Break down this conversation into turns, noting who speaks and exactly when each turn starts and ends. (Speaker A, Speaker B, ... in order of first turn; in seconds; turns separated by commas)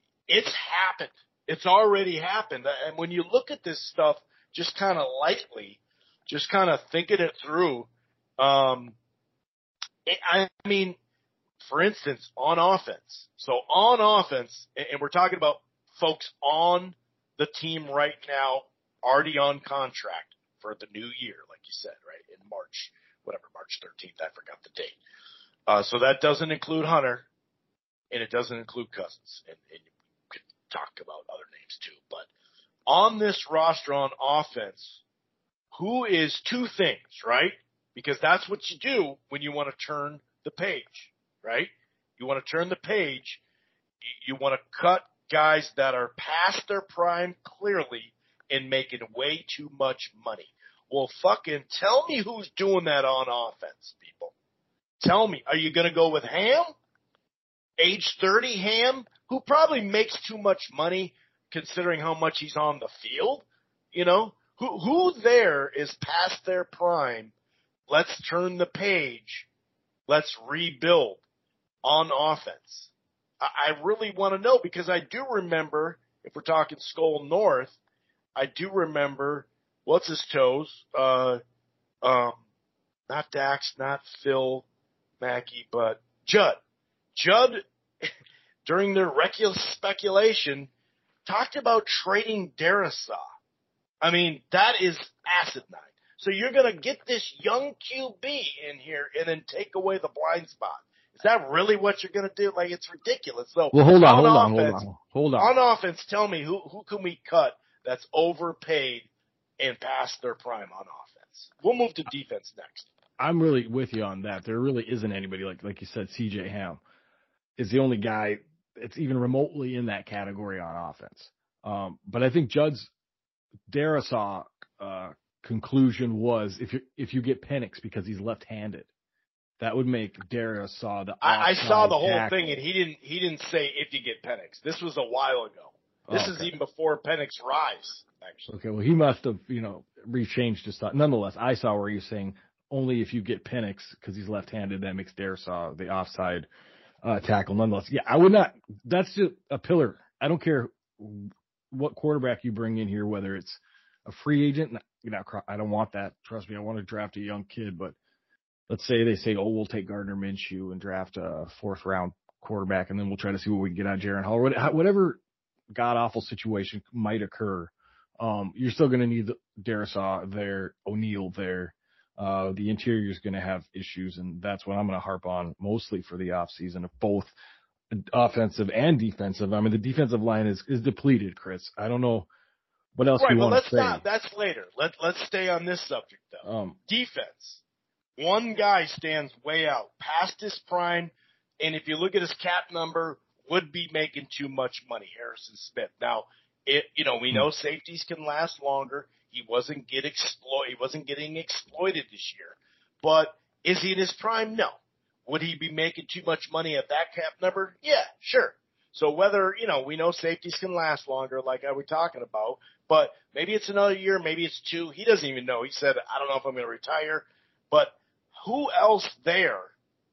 Speaker A: 0.3-8.9, Speaker A: 10.1-11.0, Speaker A: 11.6-25.0, Speaker A: 25.7-27.3, Speaker A: 28.1-32.3, Speaker A: 32.9-35.0, Speaker A: 35.7-43.4, Speaker A: 44.2-54.3, Speaker A: 55.0-56.7, Speaker A: 57.8-67.3, Speaker A: 67.9-69.5, Speaker A: 70.1-71.2, Speaker A: 71.8-77.7, Speaker A: 78.3-81.4, Speaker A: 82.0-82.4, Speaker A: 83.1-84.6, Speaker A: 85.2-86.6, Speaker A: 87.1-87.6, Speaker A: 88.7-90.7, Speaker A: 91.2-93.2, Speaker A: 94.0-104.8, Speaker B: 103.7-105.5, Speaker A: 105.4-109.1, Speaker A: 109.6-112.9, Speaker B: 113.2-116.8, Speaker B: 117.6-122.9, Speaker B: 123.7-128.9, Speaker B: 129.6-132.4, Speaker A: 131.2-138.5, Speaker B: 136.1-136.5, Speaker B: 138.5-146.5, Speaker B: 147.0-157.9, Speaker B: 158.7-165.2, Speaker B: 165.7-177.3, Speaker B: 177.9-182.3, Speaker B: 182.9-184.0, Speaker A: 183.2-187.6, Speaker B: 186.4-186.8, Speaker A: 188.2-204.8, Speaker A: 205.3-219.7